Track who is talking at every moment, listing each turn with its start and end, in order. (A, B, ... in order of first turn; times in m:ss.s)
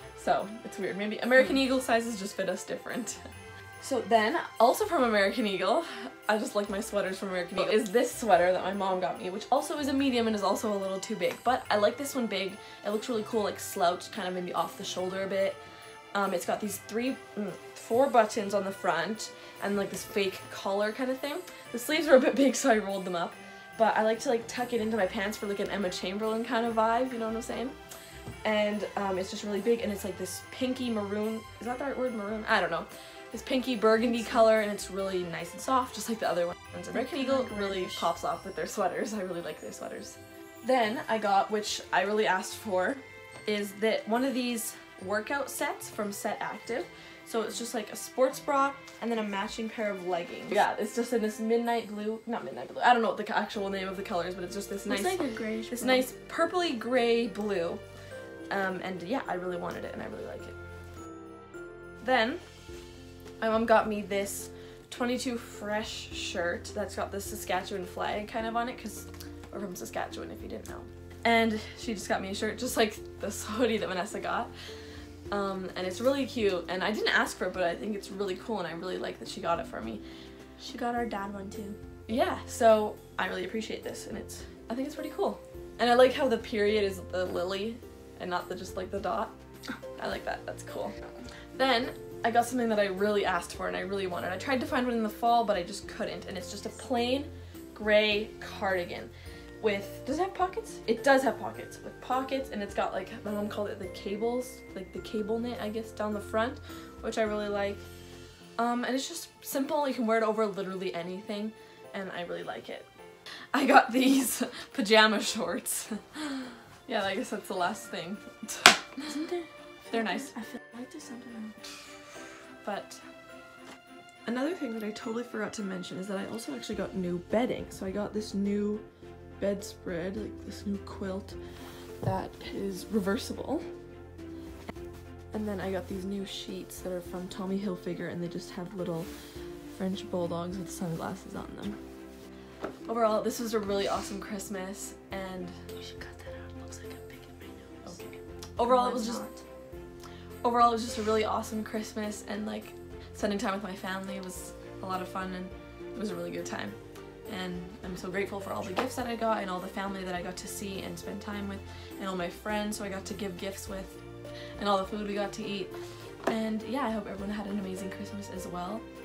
0:00.2-0:15.6 A
0:16.1-0:27.8 A
0:28.4-0:55.2 A
0:34.1-0:34.4 B
0:36.9-0:38.1 B
0:54.9-0:56.1 B
0:55.7-0:57.8 A
0:58.5-1:00.6 A
1:02.0-1:02.4 A
1:03.4-1:14.5 A
1:15.3-1:20.0 A
1:20.6-1:21.8 B
1:22.1-1:29.3 A
1:30.0-1:30.9 A
1:31.6-1:47.9 A
1:48.6-1:52.9 A
1:53.5-1:59.1 A
1:59.0-2:01.6 B
1:59.9-2:00.4 A
2:02.6-2:03.1 A
2:04.2-2:08.9 A
2:09.4-2:11.4 A
2:12.0-2:13.7 A
2:15.3-2:19.1 A
2:19.7-2:21.8 A
2:22.9-2:25.6 A
2:25.7-2:28.0 B
2:27.8-2:29.3 A
2:28.6-2:29.4 B
2:30.4-2:44.0 A
2:44.6-2:45.7 A
2:46.3-2:48.9 A